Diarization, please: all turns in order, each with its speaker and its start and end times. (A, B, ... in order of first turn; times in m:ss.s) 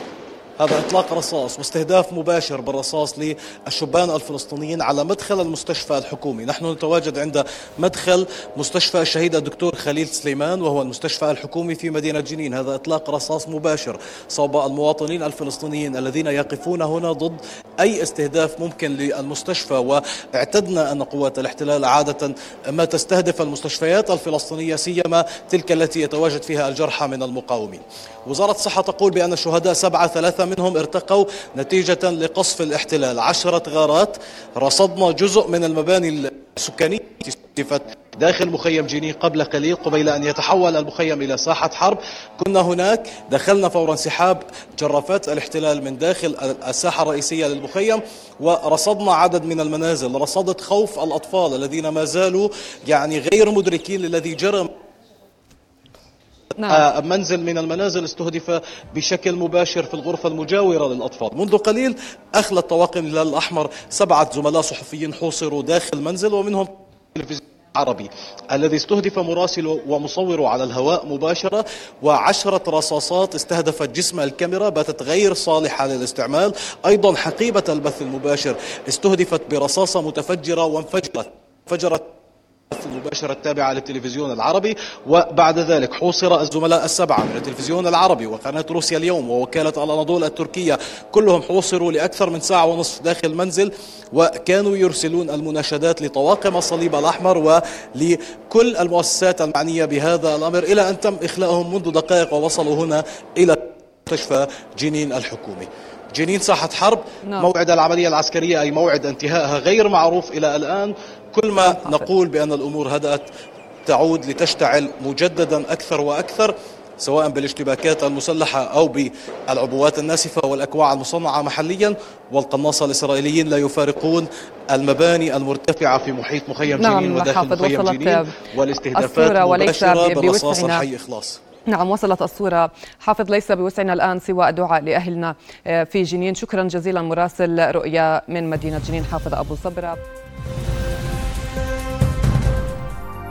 0:00.6-0:54.7 A
0:56.6-0:56.9 B
0:56.7-1:22.1 A
1:22.7-1:53.3 A
1:47.2-1:47.5 B
1:51.6-1:52.1 B
1:53.9-2:11.4 A
2:06.7-2:08.4 B
2:08.9-2:10.9 B
2:11.7-2:20.0 B